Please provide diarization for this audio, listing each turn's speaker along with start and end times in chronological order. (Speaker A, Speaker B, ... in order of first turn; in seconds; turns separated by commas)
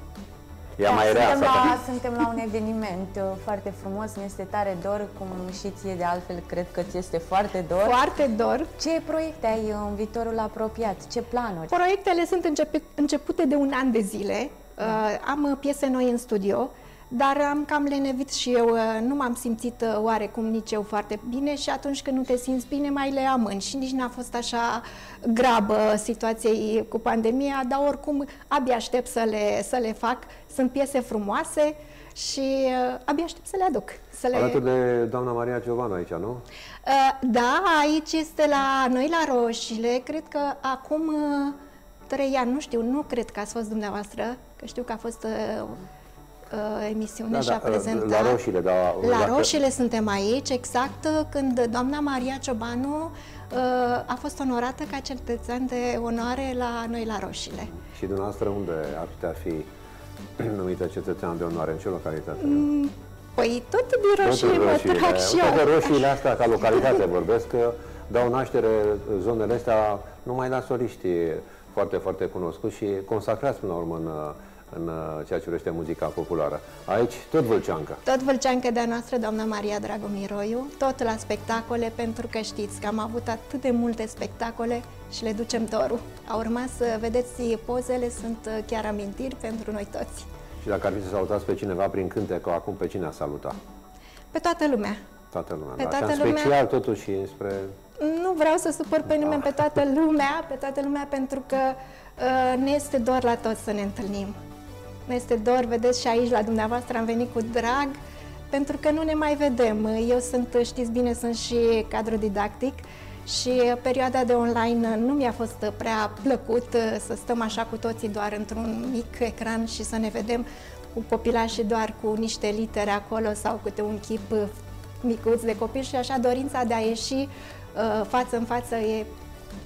Speaker A: 0.8-1.8, Speaker B: 0.8-8.0, Speaker C: 7.8-8.7, Speaker B: 8.8-11.8, Speaker C: 11.7-34.6, Speaker A: 34.3-36.5, Speaker C: 36.9-41.6, Speaker C: 42.1-45.8, Speaker C: 46.5-48.4, Speaker A: 47.3-49.5, Speaker C: 49.0-57.7, Speaker A: 57.7-59.7, Speaker A: 60.4-62.7, Speaker C: 62.4-66.1, Speaker A: 64.2-78.0, Speaker C: 78.0-90.3, Speaker A: 90.6-93.6, Speaker C: 94.3-95.0, Speaker A: 95.3-97.8, Speaker C: 95.8-96.5, Speaker C: 98.0-104.4, Speaker C: 105.1-108.0, Speaker C: 108.5-124.5, Speaker C: 125.0-129.1